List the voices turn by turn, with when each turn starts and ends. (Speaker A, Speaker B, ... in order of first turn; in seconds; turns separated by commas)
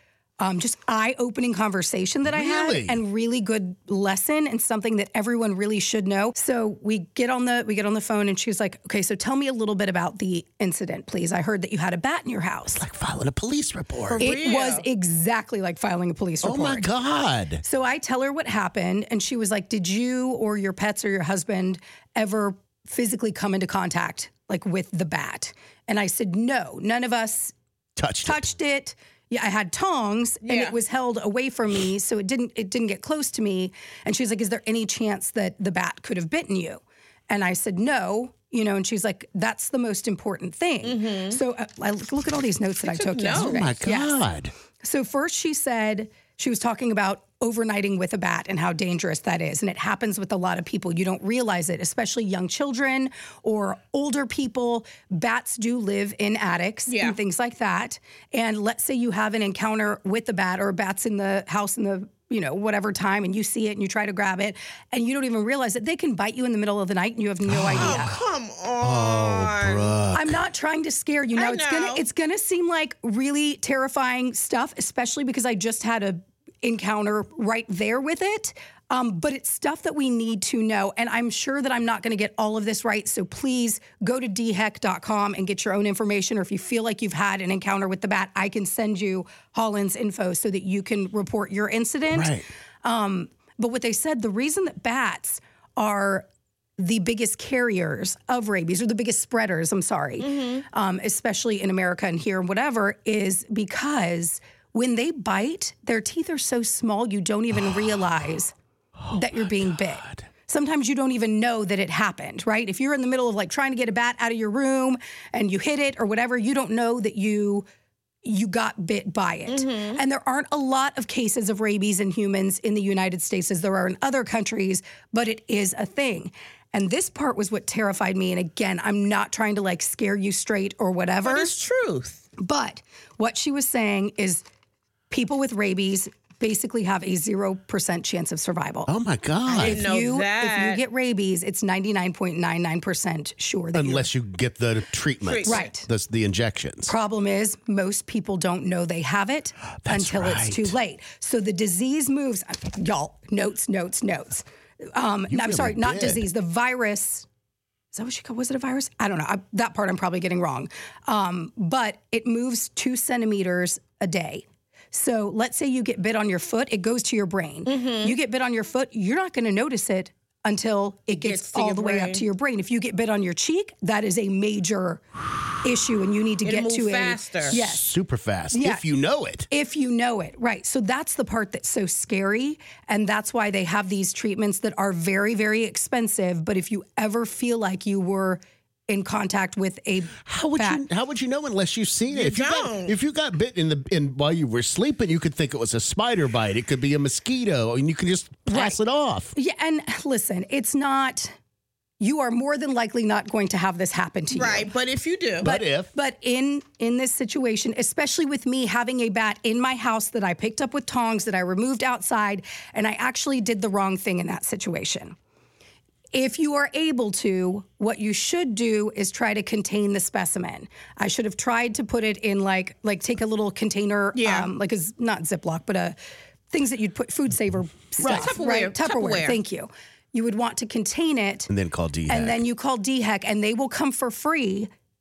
Speaker A: 0.4-12.8, Speaker B: 2.2-3.0, Speaker B: 12.7-14.3, Speaker C: 14.1-14.8, Speaker A: 14.2-16.9, Speaker B: 16.4-17.6, Speaker A: 17.6-27.5, Speaker B: 27.9-28.5, Speaker A: 28.2-44.2, Speaker C: 30.4-30.7, Speaker C: 40.8-41.4, Speaker C: 42.8-43.7, Speaker B: 43.3-44.5, Speaker A: 44.8-68.1, Speaker C: 56.9-57.1, Speaker B: 67.5-68.2, Speaker C: 67.7-70.0, Speaker B: 68.8-70.4, Speaker A: 70.1-96.2, Speaker C: 71.3-72.0, Speaker B: 92.1-92.4, Speaker A: 96.8-108.5, Speaker C: 100.2-100.6, Speaker B: 107.5-108.1, Speaker B: 109.0-110.2, Speaker A: 109.1-117.7, Speaker A: 118.2-131.5, Speaker C: 119.5-120.0, Speaker C: 131.2-132.2, Speaker A: 132.4-134.4, Speaker A: 135.1-138.9, Speaker B: 138.9-139.8, Speaker C: 139.5-140.8, Speaker A: 139.5-144.1, Speaker B: 143.7-146.9, Speaker C: 145.2-145.7, Speaker A: 145.4-145.9, Speaker A: 146.8-157.2, Speaker B: 149.8-150.7, Speaker B: 155.3-156.2, Speaker A: 157.9-177.9, Speaker C: 167.7-168.1, Speaker C: 171.2-172.2, Speaker C: 176.4-177.6, Speaker B: 177.4-179.5, Speaker A: 178.5-178.8, Speaker A: 179.5-190.8, Speaker B: 190.2-199.3, Speaker C: 192.1-192.9, Speaker A: 198.5-198.8, Speaker A: 199.3-201.3, Speaker A: 202.0-204.7, Speaker C: 204.3-205.5, Speaker B: 205.4-205.9, Speaker A: 205.4-215.2, Speaker A: 216.1-226.0, Speaker C: 224.2-224.5, Speaker A: 226.5-231.5, Speaker C: 228.0-229.4, Speaker B: 231.5-232.4, Speaker A: 232.1-234.7